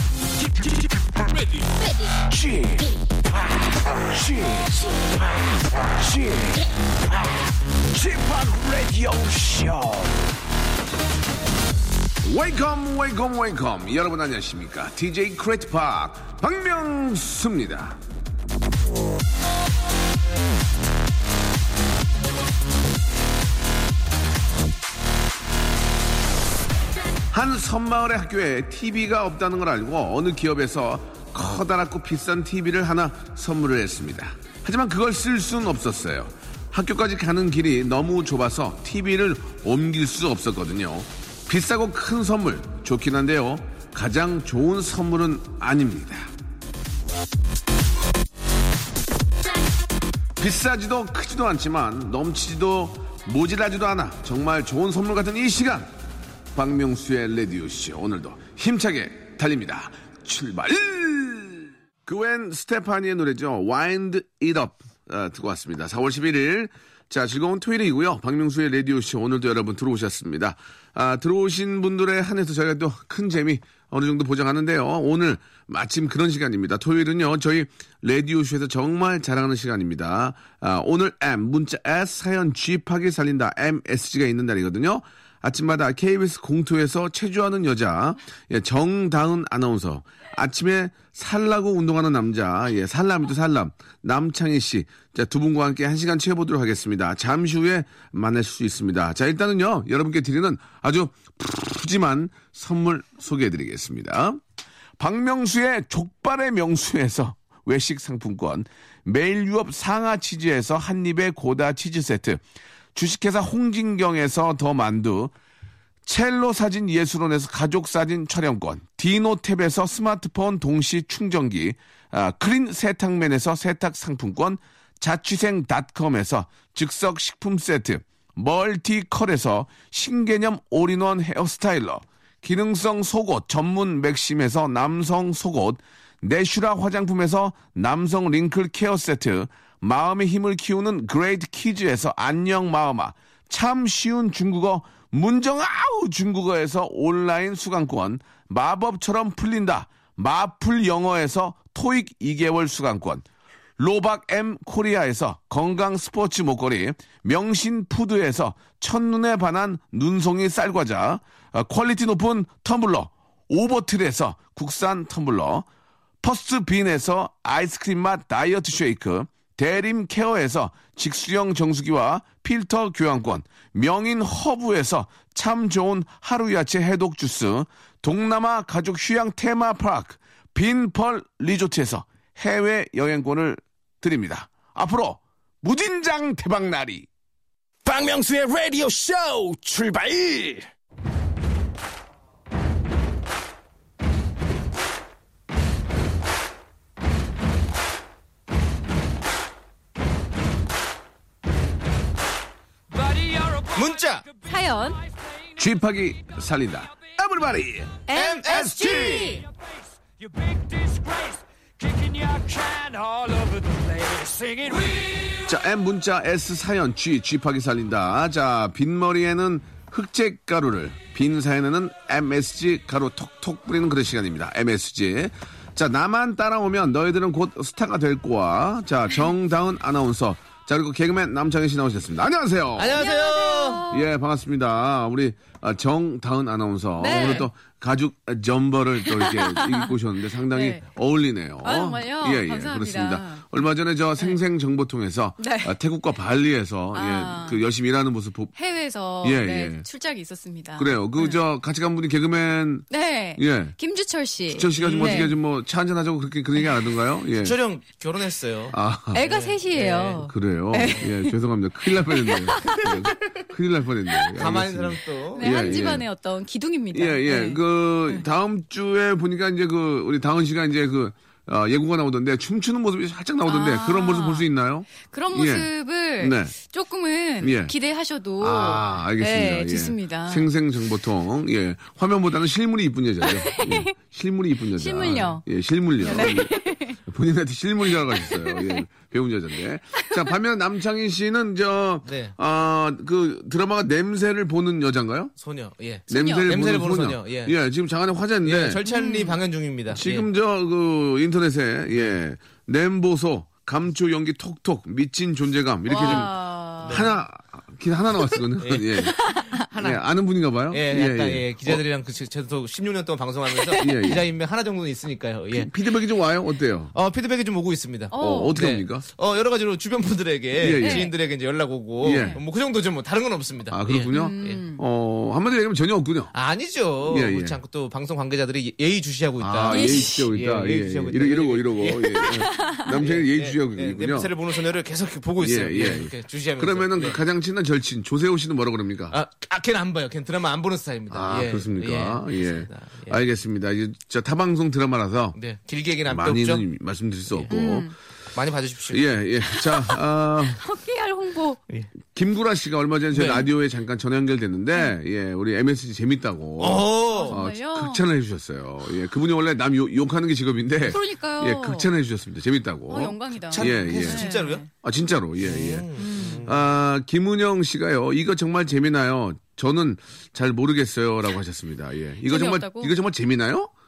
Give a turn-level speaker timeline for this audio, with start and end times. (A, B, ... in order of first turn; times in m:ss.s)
0:00.4-0:10.3 A
0:12.2-0:18.0 B
0:27.3-0:46.3 B
0:50.4-0:55.9 B
0:56.5-1:44.4 B
1:45.0-1:52.4 B
1:52.9-1:55.3 B
1:56.0-2:33.2 B
2:33.8-2:45.6 B
2:46.2-3:07.1 B
3:07.8-3:10.7 A
3:22.9-3:25.7 C
3:23.7-3:24.2 D
3:24.5-3:25.0 E
3:25.6-3:28.0 B
3:28.1-3:29.4 E
3:28.1-3:29.4 D
3:29.2-3:35.4 C
3:35.4-3:53.0 B
3:52.8-3:53.9 D
3:53.0-3:54.0 E
3:53.9-4:08.5 B
3:57.0-3:57.5 E
3:59.1-3:59.9 E
4:00.5-4:00.8 E
4:01.6-4:03.5 E
4:05.4-4:05.7 E
4:06.9-4:07.6 E
4:08.6-4:11.4 E
4:09.2-4:09.8 B
4:10.8-4:13.8 B
4:12.9-4:15.3 E
4:14.5-4:17.6 B
4:14.7-4:15.3 D
4:17.4-4:20.2 D
4:18.7-4:19.2 B
4:19.1-4:21.3 E
4:20.2-4:26.0 B
4:21.9-4:23.0 E
4:24.3-4:25.8 D
4:25.4-4:28.2 E
4:26.9-4:35.7 B
4:33.4-4:40.5 E
4:36.2-4:36.5 B
4:37.4-4:37.7 B
4:38.4-4:55.3 B
4:43.3-4:43.9 E
4:44.7-4:45.4 E
4:46.0-4:47.0 E
4:48.2-4:48.8 E
4:52.0-4:52.3 D
4:55.4-4:57.6 D
4:56.1-4:58.8 B
4:56.1-4:56.5 E
4:58.4-5:00.3 D
4:58.9-4:59.4 E
4:59.9-5:09.2 B
5:05.9-5:07.0 E
5:06.0-5:06.3 D
5:06.8-5:07.1 D
5:08.6-5:10.0 D
5:09.7-5:11.8 B
5:10.7-5:15.7 D
5:13.8-5:14.2 B
5:15.5-5:16.9 B
5:16.9-5:24.6 D
5:18.1-5:18.6 E
5:18.2-5:19.0 B
5:20.6-5:21.1 B
5:20.7-5:21.1 E
5:22.0-5:22.4 B
5:22.1-5:22.4 E
5:23.7-5:26.3 B
5:24.1-5:24.8 E
5:26.3-5:37.2 D
5:27.1-5:27.6 B
5:29.4-5:34.3 B
5:29.7-5:30.3 E
5:32.2-5:32.8 E
5:35.4-5:39.2 B
5:39.1-5:43.2 D
5:41.1-5:45.4 B
5:45.3-5:46.6 D
5:46.1-5:47.9 B
5:47.5-5:47.9 E
5:48.3-5:49.2 D
5:48.9-5:50.6 B
5:49.6-5:49.9 E
5:50.6-5:51.6 E
5:52.1-6:05.9 B
5:53.1-5:53.4 D
5:56.6-5:57.4 D
5:57.1-5:58.0 E
6:00.8-6:01.9 E
6:02.9-6:04.6 E
6:03.5-6:04.6 D
6:05.4-6:06.6 D
6:06.0-6:06.4 E
6:06.4-6:13.7 B
6:12.2-6:12.9 E